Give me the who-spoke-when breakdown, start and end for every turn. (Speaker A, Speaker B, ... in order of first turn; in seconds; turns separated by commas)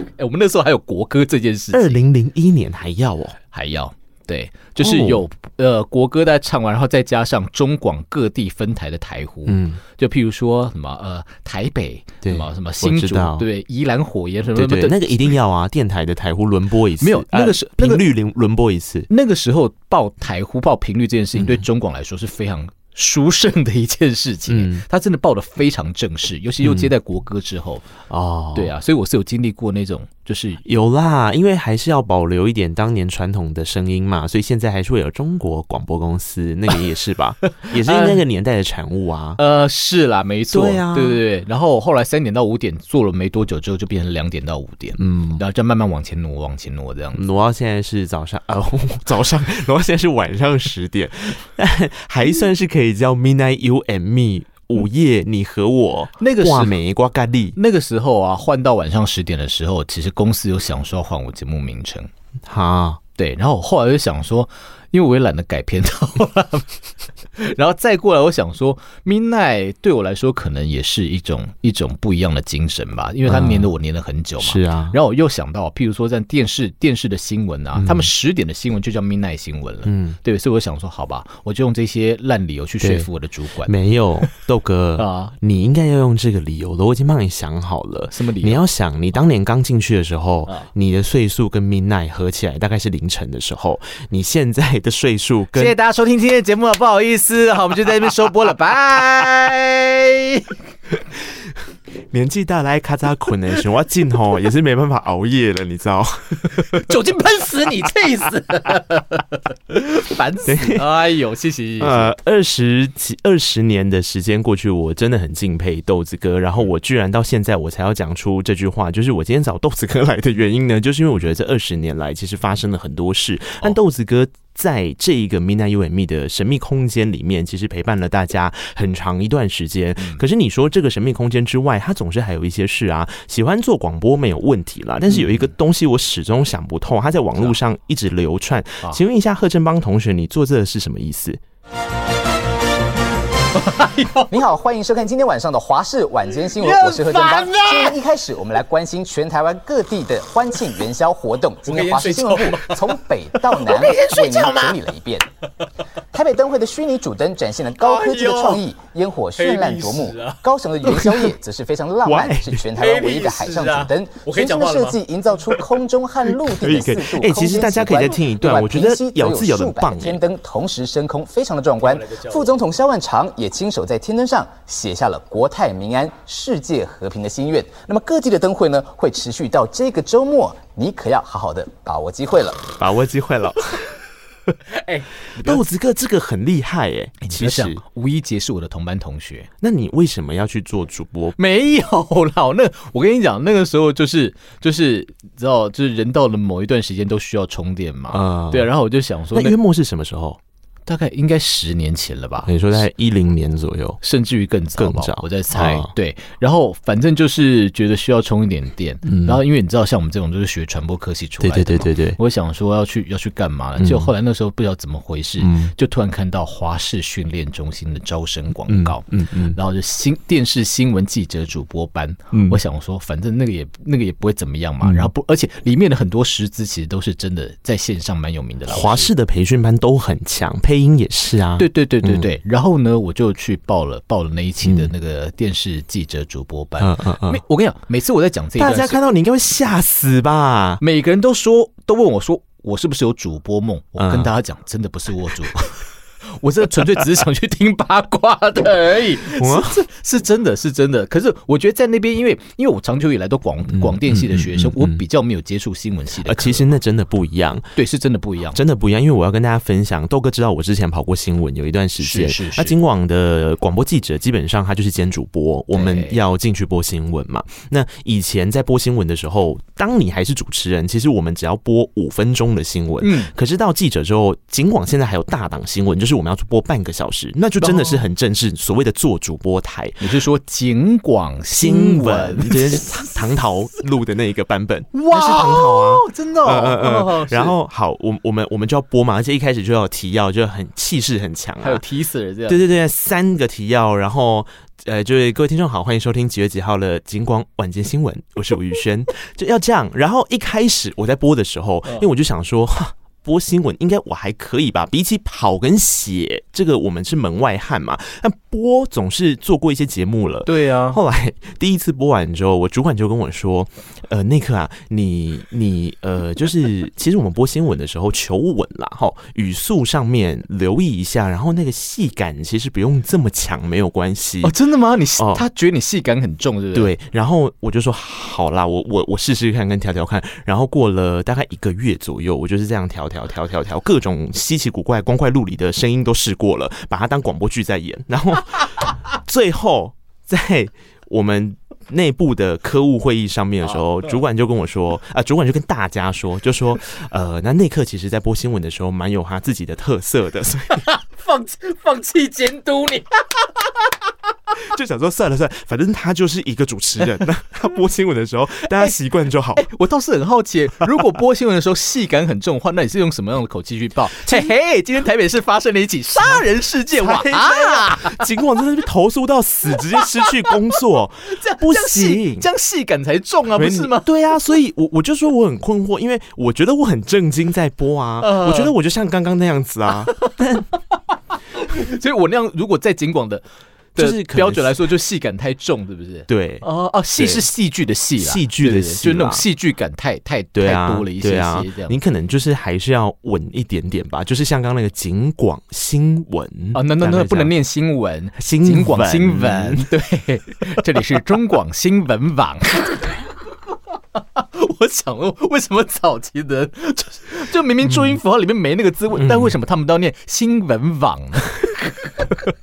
Speaker A: 0.2-2.0, Speaker B: 1.7-3.4, Speaker A: 3.5-15.3, Speaker B: 4.8-5.2, Speaker B: 9.4-9.8, Speaker B: 12.2-13.4, Speaker B: 14.5-19.1, Speaker A: 17.0-18.1, Speaker A: 19.1-27.9, Speaker B: 21.4-21.6, Speaker B: 24.5-24.8, Speaker B: 26.6-26.9, Speaker B: 28.1-28.7, Speaker A: 28.5-30.6, Speaker B: 30.6-39.4, Speaker A: 37.6-38.2, Speaker A: 39.4-47.2, Speaker B: 40.5-41.2, Speaker B: 45.0-45.4, Speaker B: 47.1-57.6, Speaker A: 56.2-56.8, Speaker A: 57.5-62.1, Speaker B: 62.5-63.0, Speaker A: 63.2-66.8, Speaker A: 67.4-83.7, Speaker B: 73.2-73.7, Speaker B: 74.4-75.0, Speaker B: 77.7-78.1, Speaker B: 79.8-80.2, Speaker B: 82.8-83.1, Speaker B: 83.6-95.7, Speaker A: 85.0-85.3, Speaker A: 88.1-88.6, Speaker A: 95.5-100.5, Speaker B: 102.1-106.9, Speaker A: 106.6-112.1, Speaker B: 110.5-110.8, Speaker B: 111.8-141.4, Speaker A: 135.1-135.4, Speaker A: 143.5-144.4, Speaker C: 144.3-155.2, Speaker A: 146.3-148.0, Speaker A: 151.6-154.8, Speaker C: 156.1-182.7, Speaker A: 157.8-158.6, Speaker A: 159.3-161.3, Speaker B: 162.0-162.6, Speaker A: 162.7-165.7, Speaker B: 166.5-170.2, Speaker A: 171.8-172.4, Speaker B: 182.8-184.0, Speaker A: 184.8-185.6, Speaker B: 185.4-187.8, Speaker A: 187.2-189.5, Speaker B: 189.6-191.4, Speaker A: 191.4-199.6, Speaker B: 198.1-198.7, Speaker B: 199.3-200.4, Speaker A: 200.9-202.8, Speaker B: 202.4-204.0, Speaker A: 204.0-229.1, Speaker B: 204.8-205.9, Speaker B: 209.1-209.4, Speaker B: 211.4-212.2, Speaker B: 213.8-214.1, Speaker B: 215.4-215.7, Speaker B: 218.7-219.6, Speaker B: 222.3-222.6, Speaker B: 224.8-225.1, Speaker B: 228.7-232.3, Speaker A: 231.6-239.0, Speaker B: 234.6-234.9, Speaker B: 236.8-237.4, Speaker B: 238.6-240.8, Speaker A: 240.8-245.8, Speaker B: 244.0-244.3, Speaker A: 246.4-256.7, Speaker B: 249.4-249.8, Speaker B: 253.7-255.0, Speaker B: 256.2-257.7, Speaker A: 257.7-258.6, Speaker B: 258.5-280.0, Speaker A: 262.0-262.7, Speaker A: 265.7-266.2, Speaker A: 273.0-273.3, Speaker A: 277.6-278.0, Speaker A: 280.0-283.1, Speaker B: 281.5-291.8, Speaker A: 284.9-287.5, Speaker A: 291.6-292.6, Speaker B: 292.5-324.5, Speaker A: 310.4-311.0, Speaker A: 324.4-326.9, Speaker B: 325.2-325.4, Speaker B: 326.7-350.8, Speaker A: 350.7-353.4, Speaker B: 354.6-359.7, Speaker A: 359.6-368.2, Speaker B: 364.2-364.5, Speaker B: 366.1-372.5, Speaker A: 370.0-370.5, Speaker A: 371.3-374.1, Speaker B: 373.6-380.7, Speaker A: 378.2-378.7, Speaker A: 381.6-383.4, Speaker B: 383.9-384.9, Speaker A: 383.9-391.9, Speaker B: 386.3-387.5, Speaker B: 388.2-389.4, Speaker B: 390.5-397.5, Speaker A: 396.7-403.2, Speaker B: 398.4-399.9, Speaker A: 404.2-412.3, Speaker B: 407.8-408.2, Speaker B: 409.1-409.5